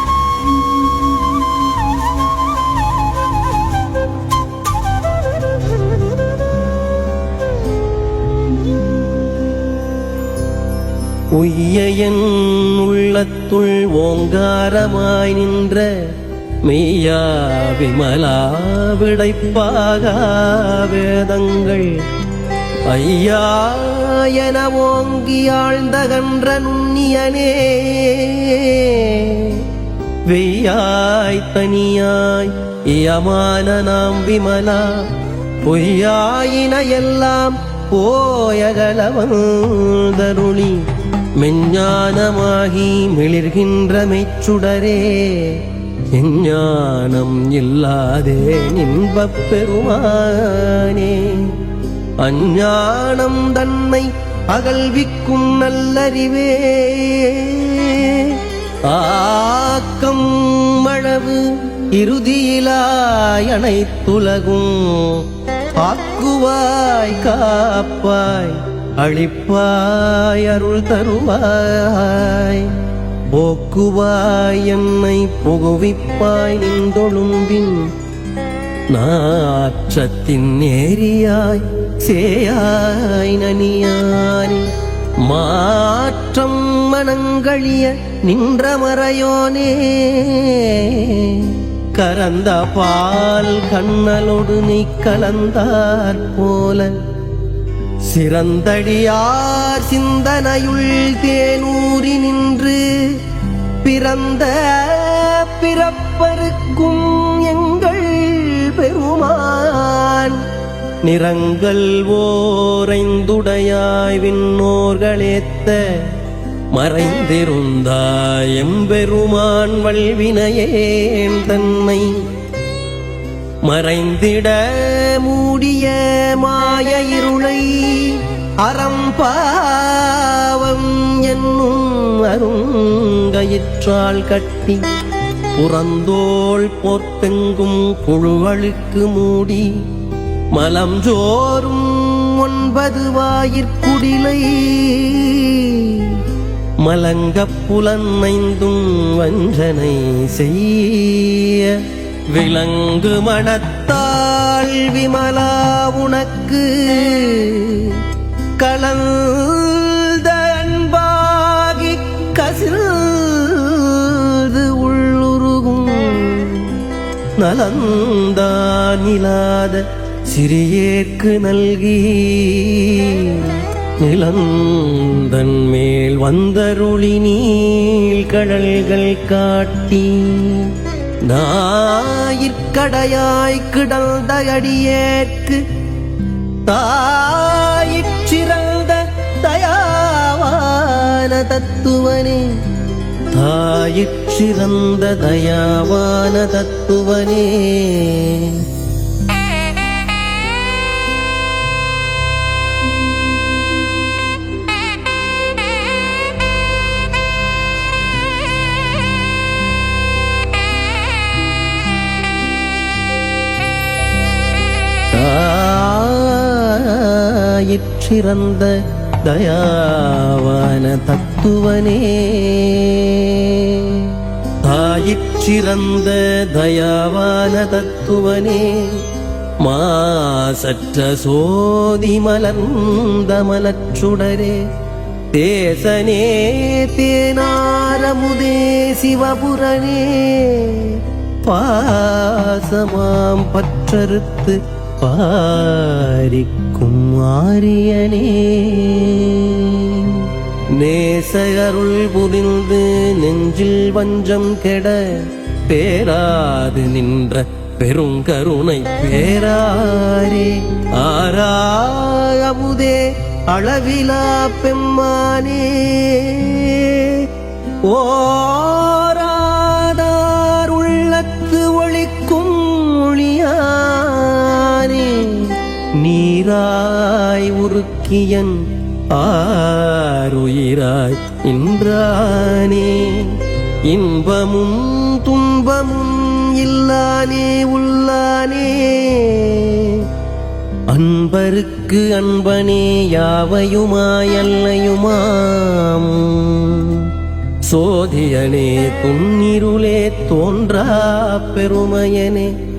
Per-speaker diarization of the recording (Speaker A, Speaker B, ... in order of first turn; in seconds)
Speaker A: 11.3-22.1, 22.9-29.7, 30.3-51.6, 52.2-72.8, 73.3-77.9, 78.9-97.0, 98.0-103.3, 103.8-110.4, 111.0-116.2, 116.7-122.2, 123.6-134.8, 135.5-139.8, 140.5-146.2, 146.8-158.1, 158.6-185.6, 186.7-192.6, 193.3-198.7, 215.1-229.1, 229.6-234.7, 235.3-290.1, 290.9-297.1, 297.6-302.5